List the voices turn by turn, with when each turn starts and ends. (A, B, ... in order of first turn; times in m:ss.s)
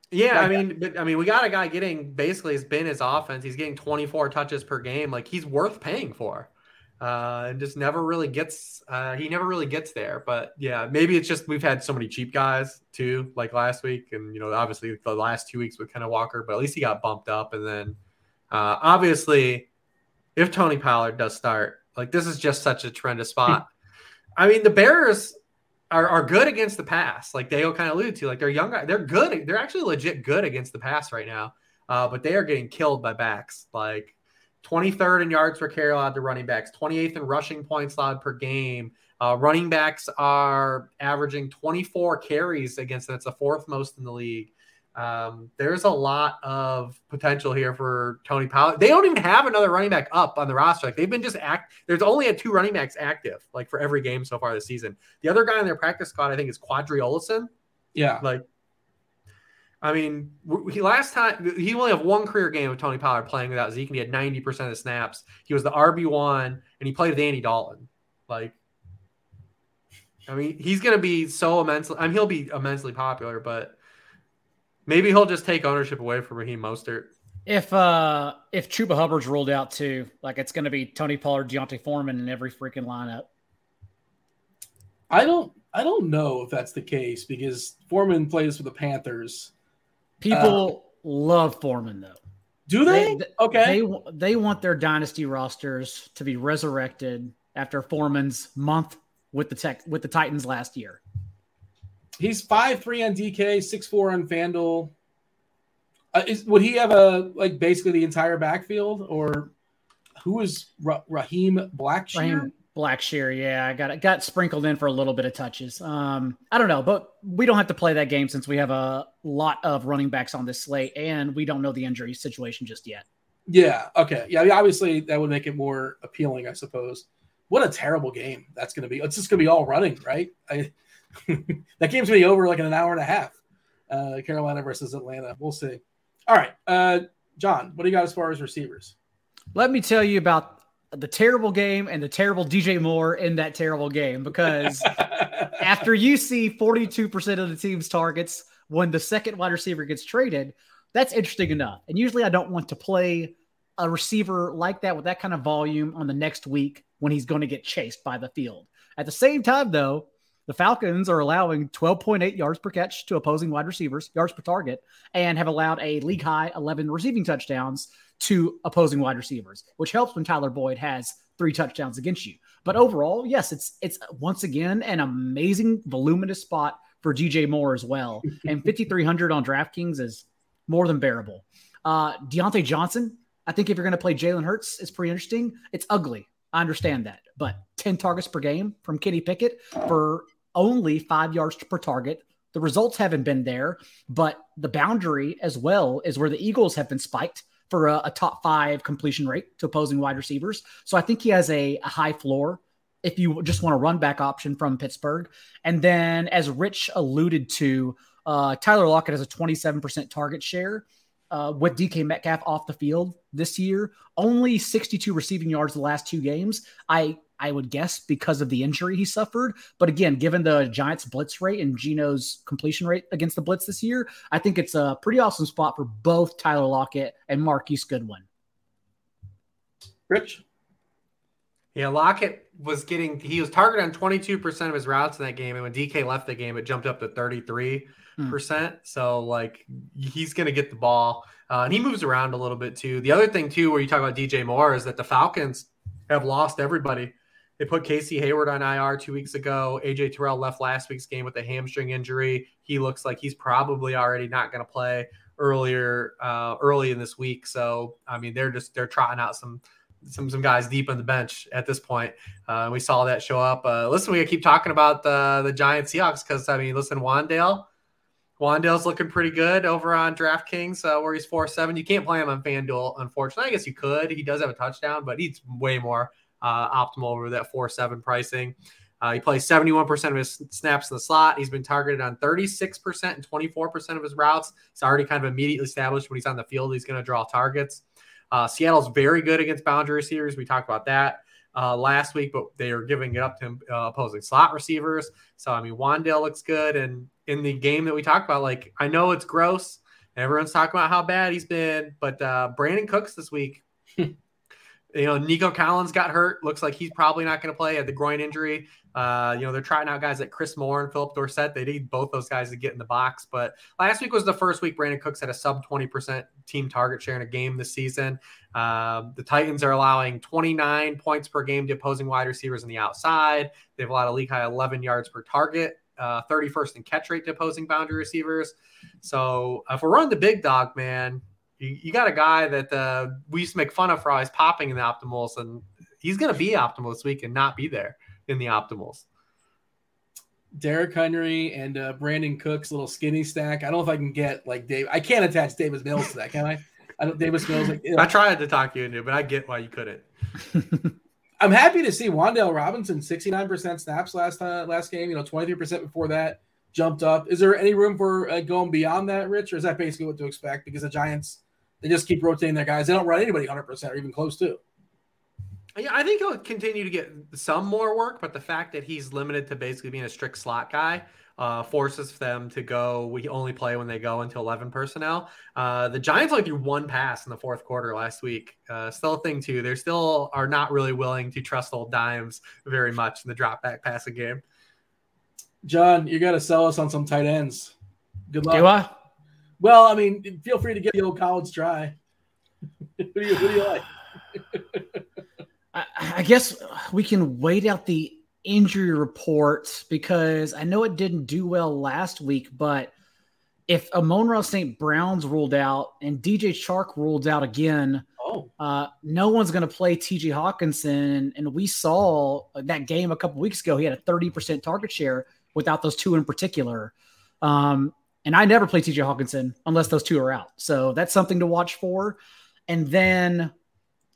0:00.1-0:18.0 A
0:00.3-0:00.6 B
0:18.5-0:19.7 A
0:20.4-0:23.7 A
0:24.4-0:25.3 A
0:25.9-0:57.5 A
0:57.9-0:58.2 B
0:59.8-1:08.5 A
1:10.3-1:13.8 A
1:14.9-1:17.1 A
1:17.5-1:23.2 C
1:25.1-1:29.5 B
1:30.2-1:32.2 C
1:30.3-1:30.6 B
1:32.7-1:33.8 B
1:32.8-1:41.0 C
1:42.2-1:44.9 B
1:46.1-1:49.5 B
1:50.2-1:52.5 B
1:52.1-2:03.0 C
2:03.5-2:13.4 B
2:13.9-2:18.9 B
2:19.5-2:25.0 C
2:24.8-2:25.5 B
2:25.5-3:48.2 C
3:50.1-3:50.4 B
3:51.7-4:27.7 A
4:28.4-5:03.6 A
5:04.9-5:39.0 A
5:40.5-5:48.1 B
5:48.0-5:50.0 A
5:51.4-6:04.6 B
6:05.8-6:24.4 A
6:25.6-6:27.7 B
6:28.3-6:28.7 B
6:28.5-6:28.9 C
6:29.6-6:31.9 B
6:33.0-6:33.9 B
6:35.7-6:42.9 C
6:43.7-6:48.0 C
6:48.2-6:48.5 B
6:48.6-7:03.5 C